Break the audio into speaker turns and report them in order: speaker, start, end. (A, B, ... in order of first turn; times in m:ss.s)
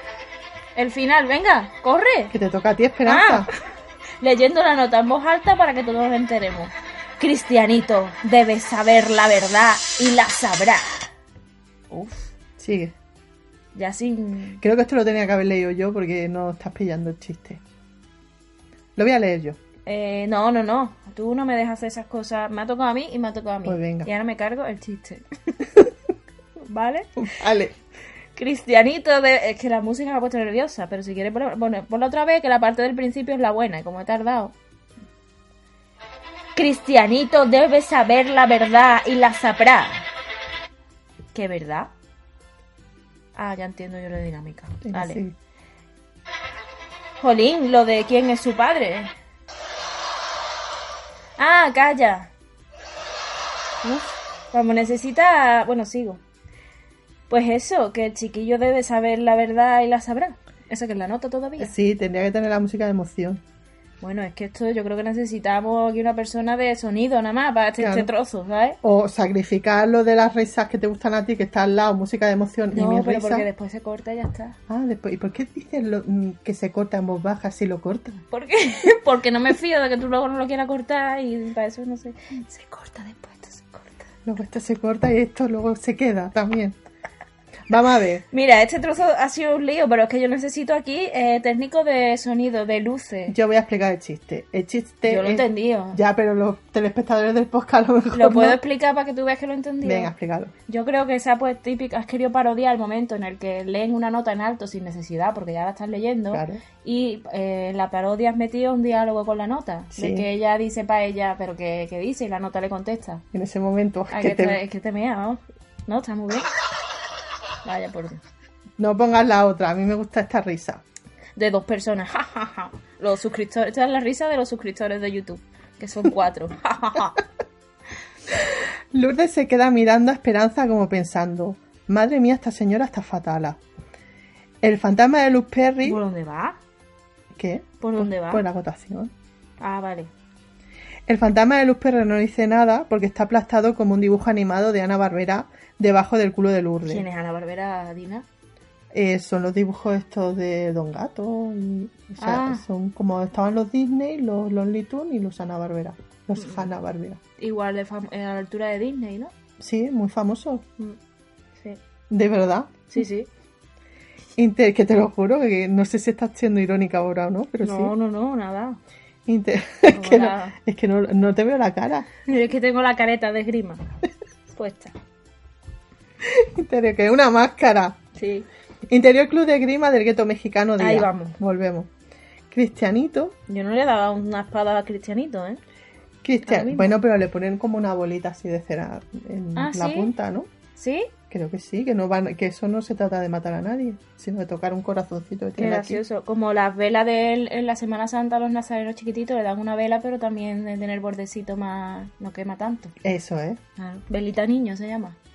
0:00.8-0:02.3 A
0:02.3-0:03.5 B
0:03.0-0:03.6 A
0:04.2-0:11.1 A
0:11.9-0:12.3 A
0:12.6-0:12.9 B
0:13.7-0:14.6 A
0:14.6-0:17.6 B
0:19.0-0:19.6 B
0:19.9-0:25.3 A
0:23.6-0:24.1 B
0:26.7-0:27.1 A
0:27.2-0:27.8 B
0:28.4-0:34.6 A
0:36.6-0:40.1 A
0:41.3-0:41.9 A
0:43.4-0:45.2 A
0:44.8-0:45.4 B
0:47.2-0:49.1 A
0:51.4-0:52.3 A
0:53.8-0:56.2 A
0:57.3-1:01.7 A
1:01.6-1:03.4 B
1:04.0-1:08.8 A
1:07.8-1:08.1 B
1:08.8-1:13.5 B
1:12.7-1:14.6 A
1:14.7-1:18.2 B
1:18.3-1:24.0 A
1:24.2-1:26.8 B
1:27.7-1:28.2 B
1:28.3-1:33.4 A
1:33.3-1:38.6 B
1:35.0-1:36.0 A
1:38.1-1:40.1 A
1:39.8-1:40.5 B
1:40.7-1:53.2 A
1:46.3-1:46.6 B
1:50.0-1:50.3 B
1:53.3-1:54.6 B
1:54.1-1:56.5 A
1:57.6-1:58.2 A
1:58.8-2:00.8 B
2:01.4-2:07.2 A
2:08.4-2:13.6 B
2:14.6-2:16.0 B
2:15.8-2:16.6 A
2:17.4-2:19.1 B
2:17.8-2:18.4 A
2:19.6-2:20.1 A
2:21.1-2:27.0 B
2:26.9-2:28.3 A
2:28.9-2:37.2 B
2:32.2-2:32.6 A
2:36.4-2:36.7 A
2:37.4-2:39.3 A
2:39.6-2:40.6 B
2:42.1-2:42.9 B
2:42.9-2:43.3 A
2:44.4-2:47.9 B
2:47.6-2:48.8 A
2:49.3-2:52.1 B
2:49.9-2:50.6 A
2:52.3-2:53.8 A
2:54.5-2:55.0 A
2:56.2-2:58.0 B
2:58.2-2:58.5 A
2:58.9-3:01.9 B
3:00.8-3:01.4 A
3:02.5-3:03.4 B
3:03.5-3:05.6 A
3:06.2-3:10.5 B
3:06.5-3:07.0 A
3:09.6-3:10.1 A
3:10.8-3:11.1 A
3:11.3-3:16.0 B
3:15.6-3:22.9 A
3:23.0-3:23.6 B
3:23.8-3:25.2 A